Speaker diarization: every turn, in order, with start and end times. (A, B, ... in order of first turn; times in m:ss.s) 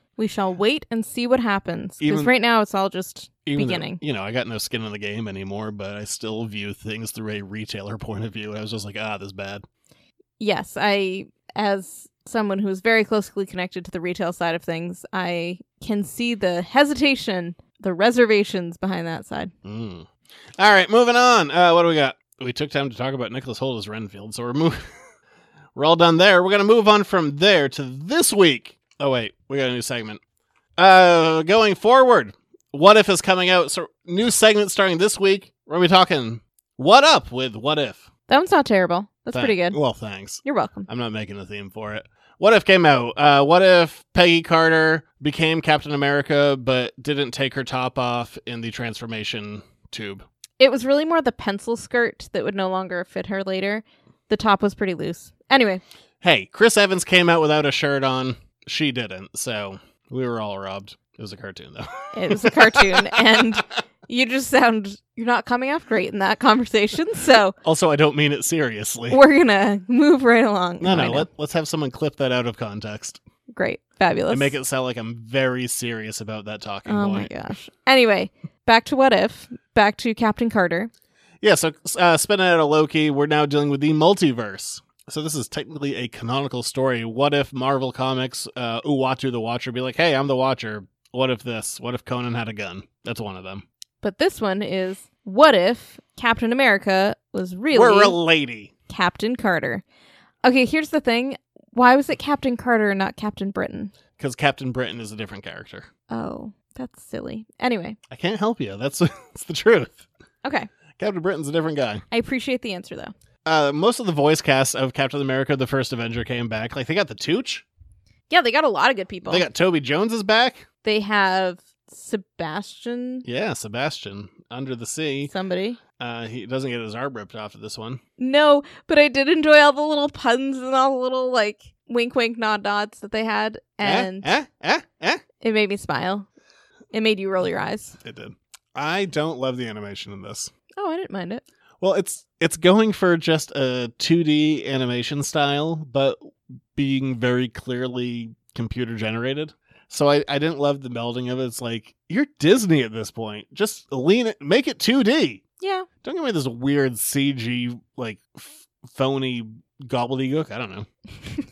0:00.2-0:04.0 A
0:02.0-0:02.3 B
0:03.4-0:09.6 B
0:10.4-0:19.5 A
0:19.6-0:24.9 B
0:25.7-0:30.2 B
0:30.8-0:38.1 B
0:38.3-0:39.8 A
0:39.3-0:50.2 B
0:40.4-0:40.9 A
0:50.6-0:55.8 A
0:56.2-1:03.6 B
1:02.1-1:07.5 A
1:07.6-1:09.2 B
1:09.1-1:11.3 A
1:10.8-1:13.2 B
1:13.5-1:14.6 A
1:14.3-1:17.3 B
1:16.9-1:20.9 A
1:21.4-1:33.6 B
1:34.0-1:38.2 A
1:37.7-1:38.7 B
1:38.9-1:39.8 A
1:40.4-1:43.9 A
1:44.2-1:45.9 B
1:46.1-1:48.0 A
1:48.1-1:50.0 B
1:51.0-1:52.0 B
1:52.1-1:53.1 A
1:53.4-1:57.6 B
1:58.3-1:59.5 A
1:59.3-2:00.6 B
2:00.8-2:03.2 A
2:03.2-2:05.3 B
2:05.2-2:05.8 A
2:06.0-2:08.0 B
2:08.2-2:14.3 A
2:13.8-2:15.2 B
2:15.4-2:16.3 A
2:16.9-2:18.0 A
2:18.0-2:20.5 B
2:20.8-2:21.4 A
2:21.8-2:35.4 B
2:35.6-2:35.9 A
2:36.0-2:40.9 B